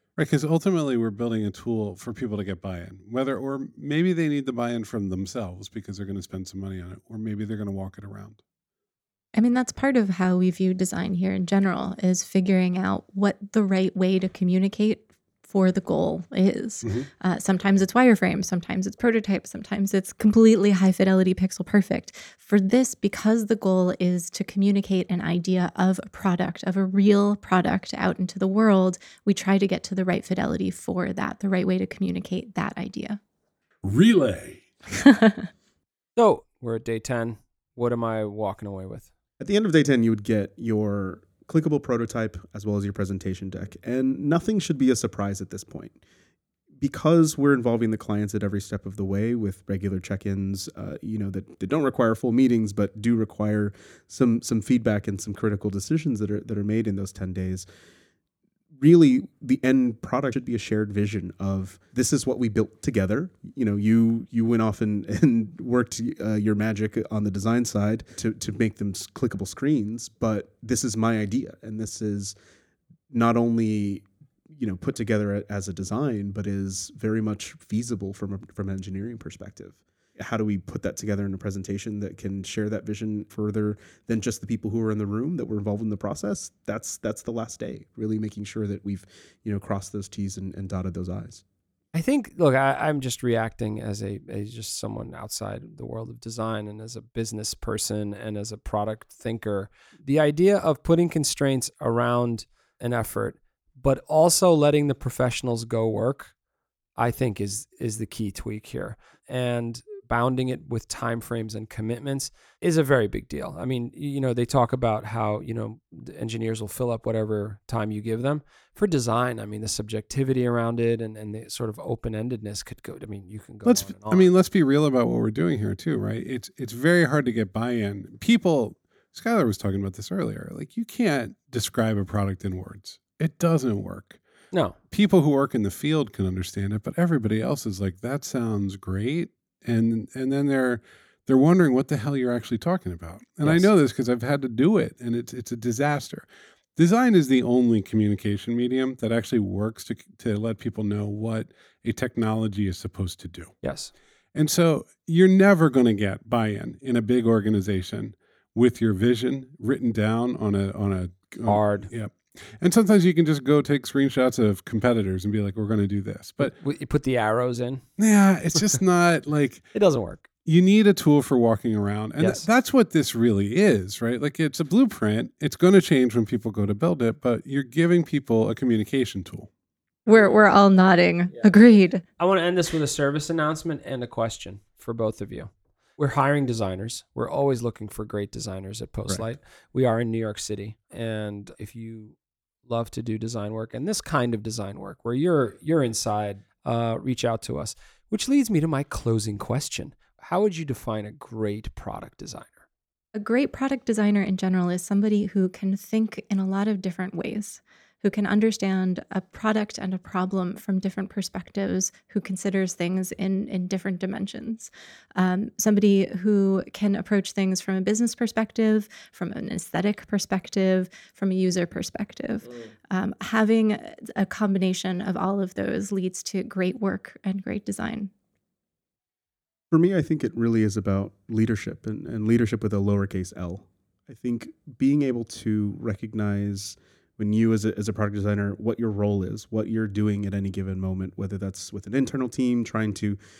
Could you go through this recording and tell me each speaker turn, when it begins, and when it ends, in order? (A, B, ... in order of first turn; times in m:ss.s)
0:00.2-0:08.4 A
0:09.3-0:33.2 B
0:33.8-0:34.6 A
0:34.9-0:35.5 B
0:36.2-0:39.1 C
0:39.4-0:46.0 D
0:46.8-0:57.6 D
0:58.8-1:12.3 D
1:13.1-1:31.4 D
1:31.9-1:46.3 C
1:47.0-2:04.3 C
2:03.6-2:14.2 A
2:14.5-2:14.8 C
2:14.9-2:26.2 A
2:23.4-2:23.7 C
2:26.8-2:33.5 A
2:33.6-2:33.9 C
2:34.3-2:46.5 A
2:41.4-2:41.9 C
2:46.4-2:47.8 C
2:48.0-2:49.7 A
2:49.7-2:50.3 C
2:50.4-2:59.5 A
2:52.2-2:52.4 C
3:00.1-3:02.0 B
3:02.2-3:22.6 C
3:23.1-3:48.1 B
3:49.7-4:03.2 D